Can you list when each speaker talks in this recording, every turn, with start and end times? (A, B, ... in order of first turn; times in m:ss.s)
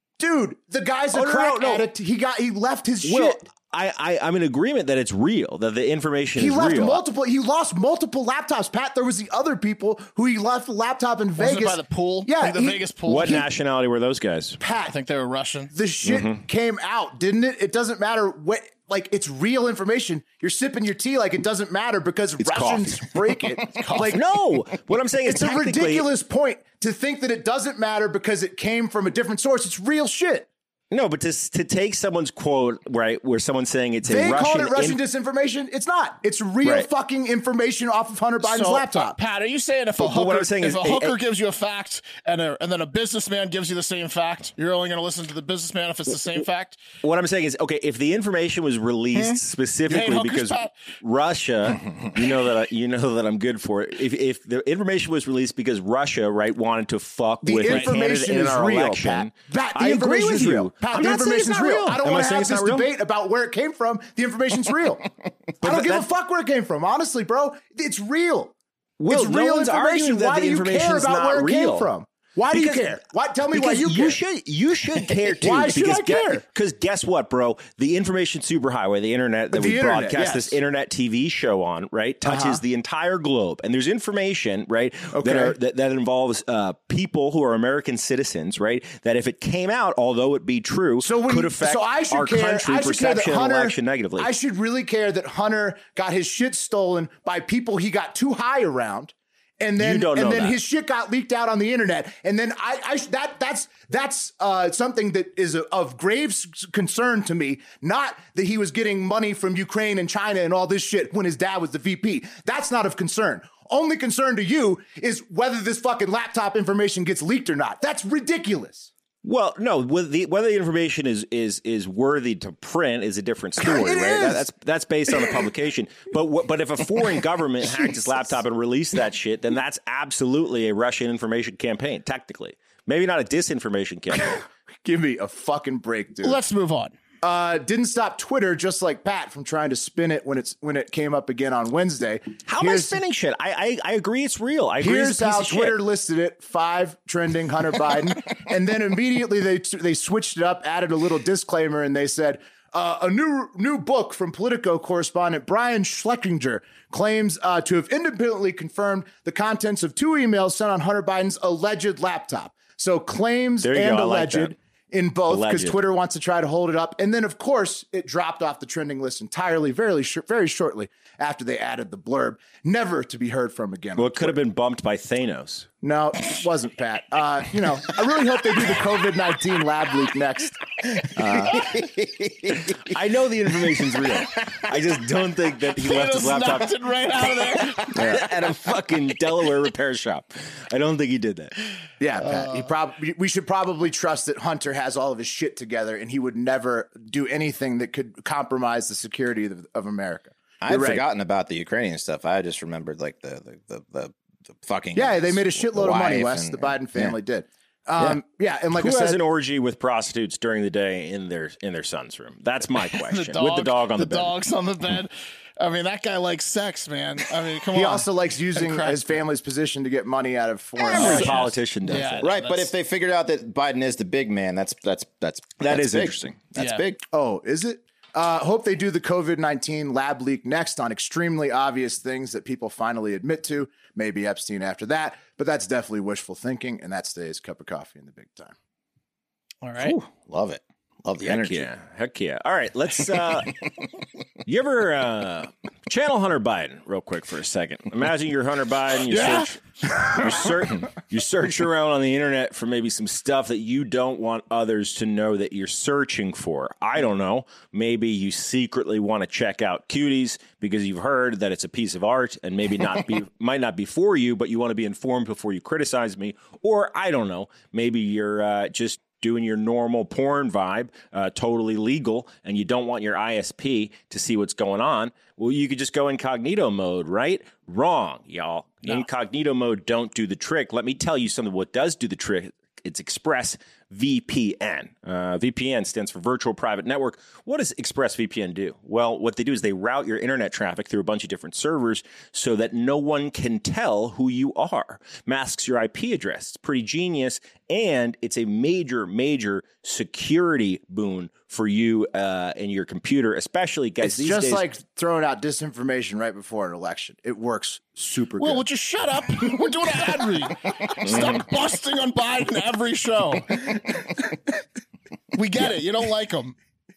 0:00.2-0:03.4 A
0:01.1-0:01.9 B
0:03.0-0:07.0 B
0:06.4-0:13.4 A
0:11.4-0:13.5 C
0:13.1-0:14.6 B
0:14.6-0:14.9 A
0:14.8-0:15.8 C
0:15.7-0:24.2 A
0:16.0-0:16.4 B
0:22.4-0:26.1 B
0:23.8-0:24.1 C
0:25.2-0:30.5 A
0:30.9-0:35.0 B
0:34.0-0:39.2 A
0:36.6-0:36.9 B
0:38.4-0:46.8 C
0:40.0-0:41.2 B
0:47.0-1:02.9 B
0:49.1-0:50.7 C
0:57.4-1:05.1 A
0:57.6-0:57.9 C
1:05.6-1:08.5 A
1:05.6-1:06.1 B
1:09.0-1:11.9 B
1:09.1-1:14.2 A
1:12.5-1:34.3 B
1:15.0-1:16.4 A
1:19.5-1:20.6 A
1:22.2-1:22.6 A
1:25.1-1:25.6 A
1:31.0-1:58.9 A
1:39.8-1:40.6 B
1:59.2-2:14.4 B
2:03.6-2:04.4 A
2:07.8-2:08.3 A
2:14.1-2:16.4 A
2:16.2-2:16.9 C
2:17.2-2:23.0 A
2:22.5-2:25.8 B
2:24.8-2:54.4 A
2:43.6-2:44.6 B
2:45.3-2:45.8 B
2:54.0-2:55.7 B
2:55.8-3:01.9 A
3:01.4-3:02.8 D
3:02.8-3:11.6 B
3:05.8-3:07.9 C
3:08.0-3:08.2 A
3:08.0-3:08.3 D
3:12.0-3:21.0 A
3:12.2-3:12.7 C
3:20.6-3:27.2 D
3:24.9-3:29.2 A
3:28.7-3:34.3 B
3:32.8-3:39.2 C
3:37.7-3:41.5 A
3:40.8-3:42.3 B
3:40.9-3:41.4 D
3:41.0-3:41.3 C
3:41.8-3:42.7 C
3:42.2-3:47.0 D
3:45.6-3:46.4 B
3:46.6-3:46.8 C
3:47.1-3:58.5 A
3:59.6-4:00.0 C
3:59.8-4:01.7 D
4:01.2-4:03.6 B
4:04.4-5:04.6 B
4:09.1-4:10.2 C
5:04.0-5:08.6 A
5:08.4-5:14.0 C
5:15.3-5:16.6 C